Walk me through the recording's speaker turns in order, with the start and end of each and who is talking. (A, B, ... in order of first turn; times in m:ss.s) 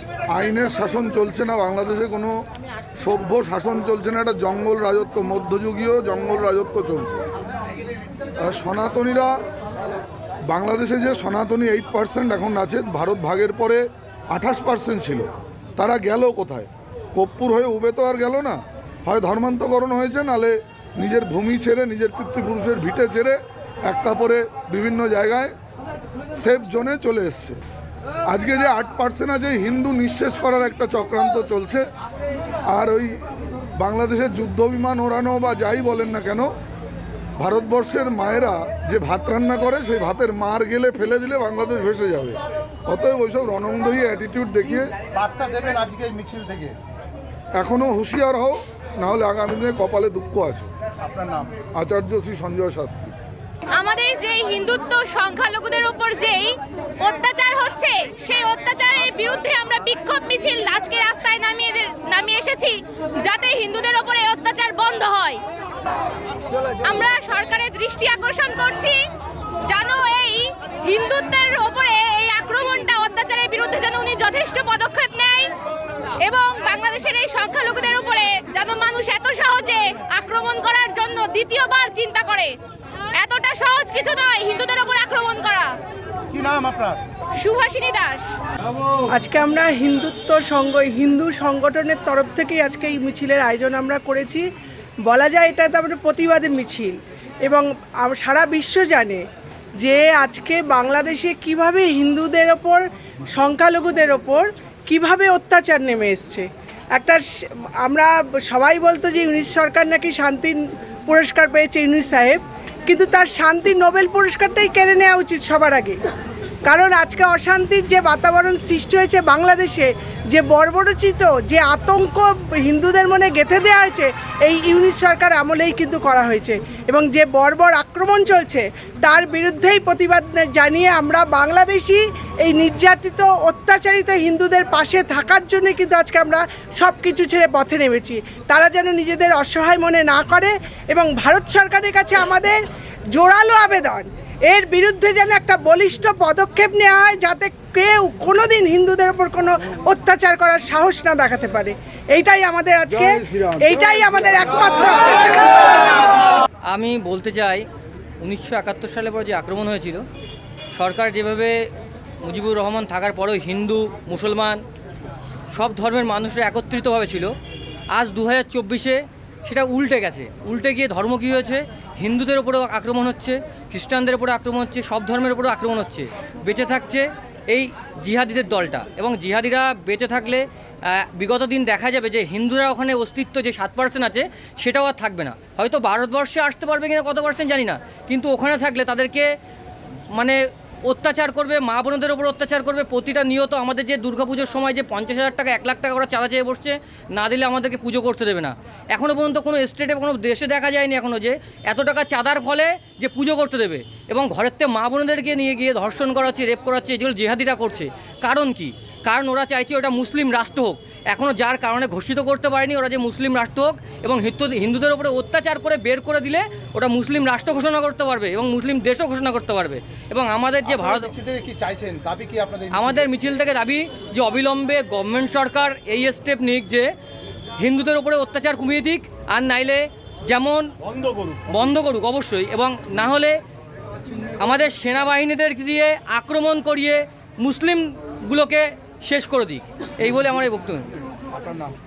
0:00.3-0:02.3 A
0:03.0-0:07.2 A
0:08.4-0:09.3 A
0:10.5-0:25.5 A
0:26.4-0:27.6 A
0:28.3-0:31.8 A
0:32.7-0:33.3 A
0:33.8-0:36.5 A
0:37.4-0:44.9 A
0:45.1-0:46.8 B
0:47.6-0:50.7 A
0:51.0-0:51.6 B
0:51.7-0:53.1 A
0:53.7-1:05.4 C
1:06.8-1:09.1 C
1:09.6-1:15.5 C
1:16.2-1:22.6 C
1:23.2-1:25.8 C
1:26.3-1:27.0 B
1:27.3-1:28.4 C
1:29.1-1:34.4 D
1:35.1-1:39.2 D
1:39.8-1:47.2 D
1:47.8-1:56.0 D
1:56.6-2:35.7 D
2:33.2-2:33.6 A
2:36.7-2:37.7 E
2:38.2-2:40.0 E
2:40.7-2:41.7 E
2:42.2-2:44.6 E
2:45.5-2:47.3 E
2:47.9-3:09.3 E
3:10.1-3:41.1 E
3:40.7-3:43.1 B
3:42.7-3:46.9 E
3:47.6-3:50.7 E
3:50.9-3:51.5 B
3:51.5-3:53.4 E
3:54.4-4:00.9 E